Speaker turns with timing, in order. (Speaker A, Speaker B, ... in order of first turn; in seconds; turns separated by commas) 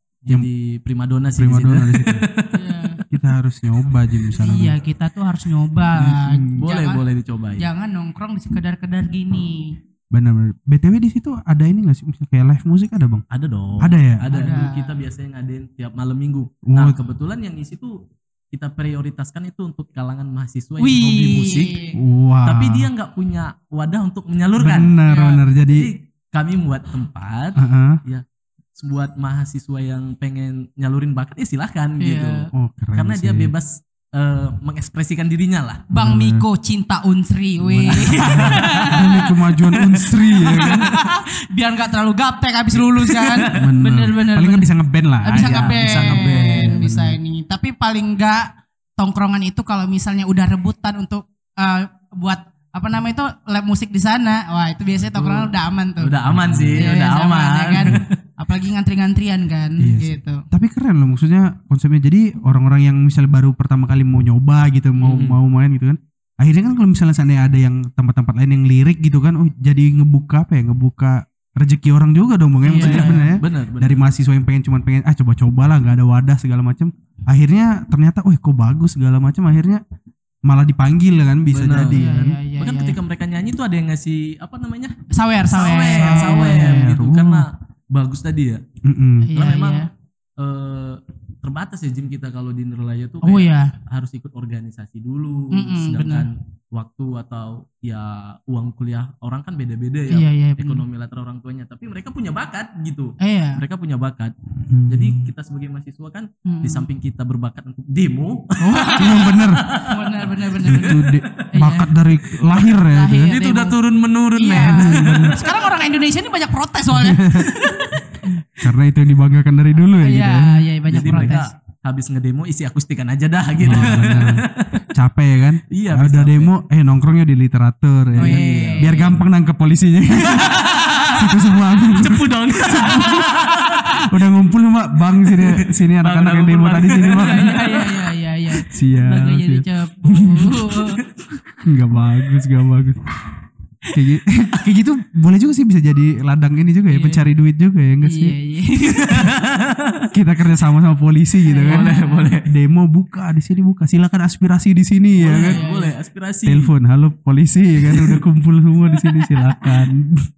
Speaker A: 0.2-2.8, Speaker B: 1.3-2.3, Speaker C: 2.5-3.0, Speaker B: 3.0-4.8, Speaker C: 4.4-7.0, Speaker B: 6.0-6.6, Speaker A: 6.6-7.7, Speaker C: 7.6-9.8, Speaker B: 10.1-13.2, Speaker A: 13.3-17.9, Speaker B: 13.8-14.2, Speaker C: 14.3-15.0, Speaker B: 16.6-17.0, Speaker A: 18.5-21.8, Speaker C: 20.8-22.0, Speaker B: 21.9-22.9, Speaker A: 22.4-25.0, Speaker B: 24.6-25.9, Speaker C: 25.0-25.4, Speaker A: 25.6-28.2, Speaker B: 27.6-28.0, Speaker A: 28.8-35.9, Speaker C: 32.0-32.5, Speaker B: 32.5-33.5, Speaker C: 35.9-44.6, Speaker B: 35.9-36.4, Speaker B: 37.6-40.9, Speaker A: 37.9-39.0, Speaker A: 42.7-43.7, Speaker B: 43.5-47.2, Speaker C: 45.2-56.2, Speaker A: 45.3-46.8, Speaker A: 55.1-58.1, Speaker B: 56.2-56.9, Speaker C: 56.7-60.4, Speaker B: 57.8-58.0, Speaker B: 59.8-79.8, Speaker A: 65.0-65.4, Speaker C: 72.6-73.4, Speaker A: 72.8-74.0, Speaker B: 80.4-82.4, Speaker A: 81.5-82.0, Speaker C: 81.9-83.0, Speaker A: 82.6-88.6, Speaker C: 85.1-86.9, Speaker B: 86.0-87.4, Speaker B: 88.8-89.3, Speaker C: 89.2-89.9, Speaker A: 89.3-104.3, Speaker C: 93.2-93.7, Speaker C: 95.5-96.3, Speaker C: 100.1-100.8, Speaker C: 103.2-103.6, Speaker B: 104.6-105.3, Speaker A: 104.9-111.3, Speaker C: 106.5-106.9, Speaker C: 108.6-111.9, Speaker B: 109.0-109.7, Speaker B: 110.6-113.4, Speaker C: 112.6-113.8, Speaker A: 113.3-115.5, Speaker C: 114.3-118.4, Speaker B: 114.5-115.4, Speaker B: 116.9-117.6, Speaker B: 118.5-121.4, Speaker C: 120.0-121.5, Speaker A: 120.9-124.8, Speaker B: 123.6-133.3, Speaker A: 125.7-126.5, Speaker A: 128.2-129.2, Speaker C: 128.2-129.1, Speaker A: 130.2-134.1, Speaker B: 134.1-137.6, Speaker A: 135.3-138.1, Speaker C: 136.9-141.0, Speaker B: 138.7-140.6, Speaker B: 141.5-143.2, Speaker B: 143.9-148.3, Speaker C: 146.9-147.2, Speaker C: 148.0-149.4, Speaker A: 149.1-150.1, Speaker B: 150.1-155.6, Speaker C: 151.4-152.3, Speaker A: 151.6-152.5, Speaker A: 155.2-156.7, Speaker C: 155.2-155.9, Speaker B: 156.4-160.3, Speaker A: 157.9-158.2, Speaker C: 158.9-159.8